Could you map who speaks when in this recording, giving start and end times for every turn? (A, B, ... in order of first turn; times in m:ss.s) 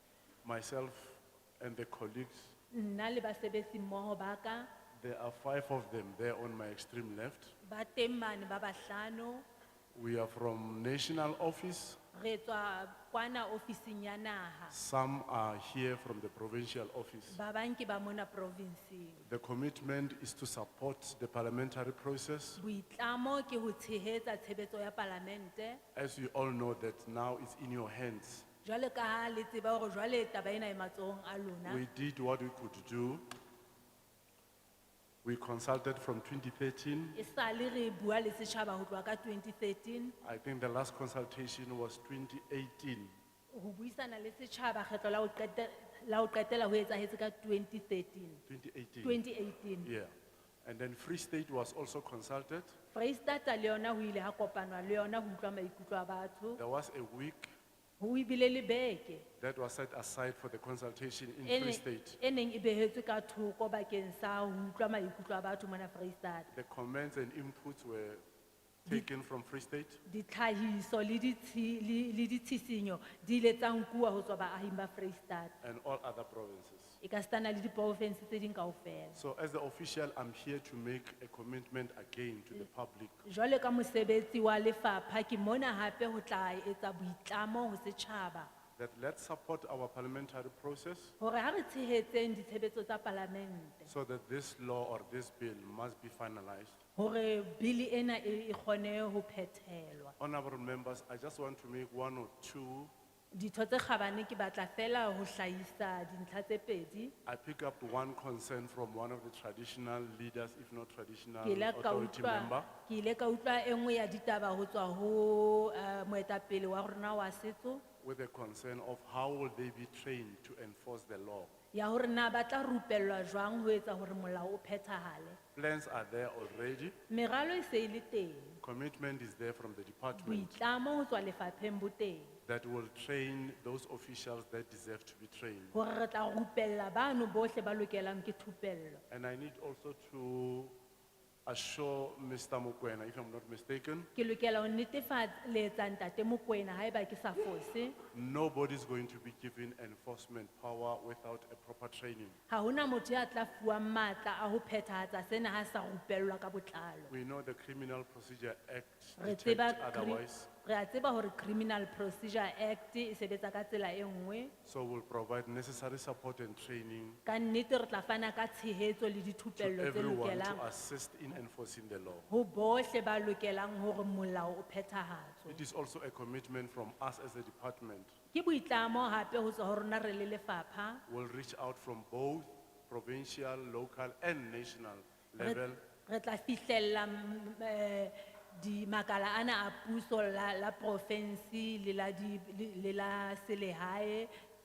0:00.4-0:02.5 A
0:02.7-0:04.7 B
0:05.0-0:07.6 A
0:07.6-0:09.4 B
0:09.9-0:12.0 A
0:12.1-0:14.8 B
0:14.7-0:17.4 A
0:17.3-0:19.2 B
0:19.2-0:22.6 A
0:22.6-0:25.8 B
0:26.0-0:28.5 A
0:28.6-0:31.8 B
0:31.6-0:33.2 A
0:35.2-0:37.2 A
0:37.2-0:40.2 B
0:40.2-0:43.1 A
0:43.5-0:48.4 B
0:48.5-0:49.2 A
0:49.0-0:49.9 B
0:49.8-0:50.1 A
0:50.6-0:52.8 A
0:52.9-0:56.6 B
0:56.6-0:57.5 A
0:58.0-0:59.3 B
0:59.4-1:02.2 A
1:01.4-1:06.5 B
1:06.5-1:08.2 A
1:08.8-1:10.0 A
1:10.1-1:15.6 B
1:15.6-1:17.0 A
1:17.0-1:19.2 B
1:19.1-1:23.2 A
1:23.2-1:28.5 B
1:28.8-1:31.2 A
1:31.2-1:33.9 B
1:33.9-1:36.8 A
1:37.0-1:40.1 B
1:40.2-1:42.9 A
1:43.3-1:47.1 B
1:47.2-1:52.7 A
1:51.4-1:57.8 B
1:58.0-2:01.5 A
2:01.7-2:05.4 B
2:05.6-2:07.0 A
2:07.1-2:08.6 B
2:08.6-2:10.6 A
2:10.1-2:12.4 B
2:12.4-2:15.8 A
2:15.7-2:19.0 B
2:19.1-2:20.8 A
2:21.4-2:24.1 A
2:24.2-2:28.0 B
2:28.1-2:32.4 A
2:32.5-2:37.1 B
2:37.1-2:40.5 A
2:39.2-2:44.5 B
2:44.6-2:47.2 A
2:47.3-2:50.6 B
2:49.6-2:52.3 A
2:52.3-2:55.6 B
2:55.5-2:58.2 A
2:58.3-3:01.0 B
3:01.1-3:05.8 A
3:05.4-3:14.3 B